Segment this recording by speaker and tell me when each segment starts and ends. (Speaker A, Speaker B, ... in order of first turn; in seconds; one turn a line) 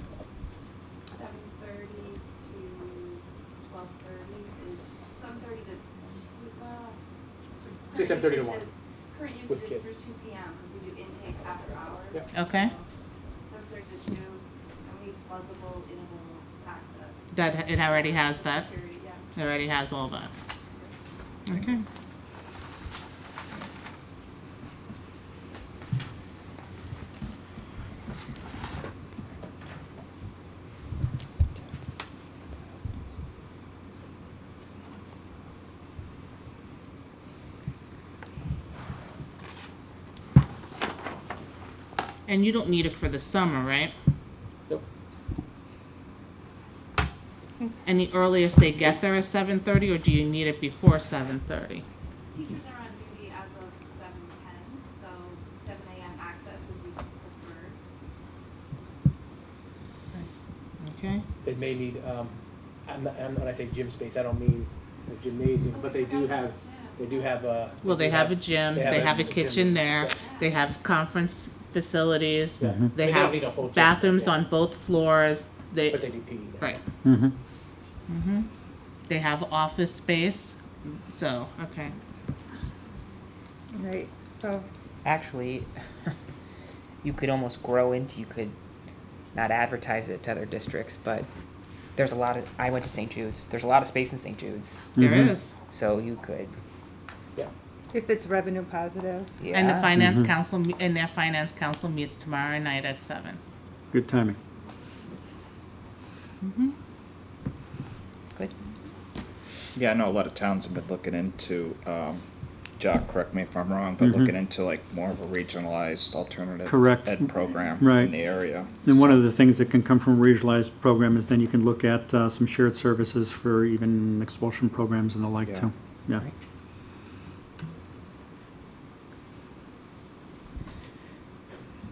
Speaker A: 1.0-7.0
Speaker B: 7.9-8.7
Speaker A: 8.1-12.8
Speaker B: 9.4-10.0
Speaker C: 12.2-12.6
Speaker D: 12.3-12.7
Speaker A: 13.5-17.3
Speaker D: 17.3-20.3
Speaker A: 17.9-19.3
Speaker A: 20.6-20.9
Speaker D: 21.5-21.8
Speaker D: 42.3-43.9
Speaker D: 47.8-51.8
Speaker A: 52.3-57.8
Speaker D: 60.8-61.2
Speaker B: 61.4-70.3
Speaker A: 65.7-67.2
Speaker D: 67.8-76.8
Speaker B: 72.6-74.4
Speaker B: 75.9-76.8
Speaker E: 77.0-77.3
Speaker D: 78.1-78.5
Speaker D: 79.1-81.9
Speaker C: 83.7-84.7
Speaker F: 85.0-85.7
Speaker F: 87.0-88.5
Speaker F: 89.3-91.3
Speaker F: 92.0-94.8
Speaker E: 95.0-95.3
Speaker D: 95.0-95.5
Speaker F: 95.7-96.5
Speaker C: 97.9-99.3
Speaker F: 99.4-99.9
Speaker D: 99.5-103.4
Speaker E: 100.0-100.3
Speaker E: 103.9-104.4
Speaker D: 106.4-106.7
Speaker G: 109.7-112.2
Speaker G: 112.8-119.1
Speaker E: 114.0-114.3
Speaker E: 116.6-117.3
Speaker E: 117.8-118.2
Speaker E: 118.8-126.3